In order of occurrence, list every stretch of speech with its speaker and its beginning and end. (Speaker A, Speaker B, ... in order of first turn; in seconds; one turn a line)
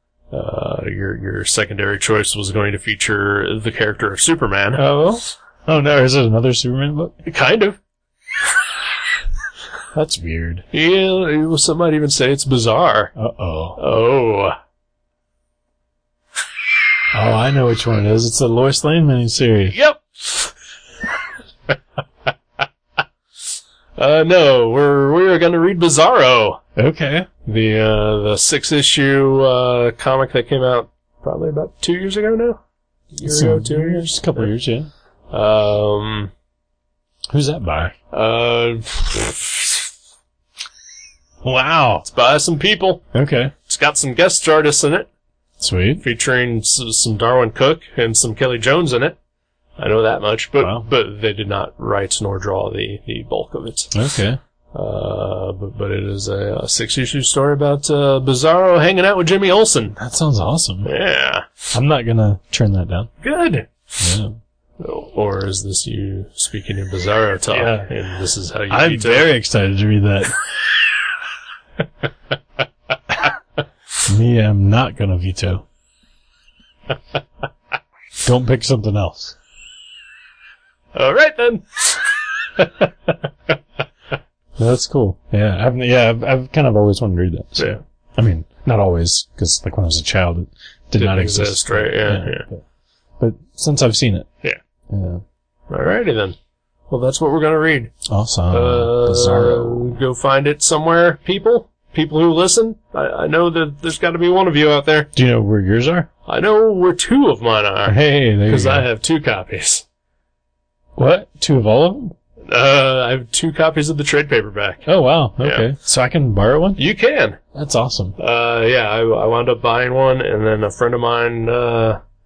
Speaker A: 0.3-4.8
Speaker B: 4.7-7.2
Speaker A: 7.2-7.8
Speaker B: 9.9-10.7
Speaker A: 10.7-13.2
Speaker B: 13.2-13.8
Speaker A: 13.8-14.6
Speaker B: 17.1-19.8
Speaker A: 19.7-20.5
Speaker A: 24.0-26.6
Speaker B: 26.8-27.3
Speaker A: 27.5-32.6
Speaker A: 33.1-34.5
Speaker B: 33.2-34.9
Speaker A: 35.3-36.3
Speaker B: 37.3-38.0
Speaker A: 38.1-39.8
Speaker B: 41.4-42.0
Speaker A: 42.0-43.0
Speaker B: 43.1-43.5
Speaker A: 43.7-45.1
Speaker B: 45.6-46.0
Speaker A: 46.0-49.2
Speaker A: 49.8-54.0
Speaker B: 50.6-50.9
Speaker B: 53.9-54.4
Speaker A: 54.7-60.0
Speaker B: 60.0-60.9
Speaker A: 60.9-61.7
Speaker B: 61.7-63.1
Speaker A: 63.2-63.7
Speaker B: 64.0-64.3
Speaker A: 64.8-69.3
Speaker B: 67.5-67.9
Speaker B: 68.7-70.8
Speaker B: 74.1-75.7
Speaker B: 78.2-79.4
Speaker A: 80.9-83.5
Speaker B: 84.6-92.6
Speaker A: 91.0-92.5
Speaker B: 93.2-94.3
Speaker B: 94.9-95.2
Speaker A: 95.7-96.4
Speaker A: 96.9-98.0
Speaker B: 98.1-100.0
Speaker A: 98.5-105.1
Speaker B: 105.1-106.1
Speaker A: 106.3-109.8
Speaker B: 107.9-108.9
Speaker B: 111.0-112.2
Speaker A: 112.5-114.9
Speaker B: 114.9-116.8
Speaker A: 115.4-115.7
Speaker A: 116.8-117.4
Speaker B: 117.5-118.2
Speaker A: 118.2-122.0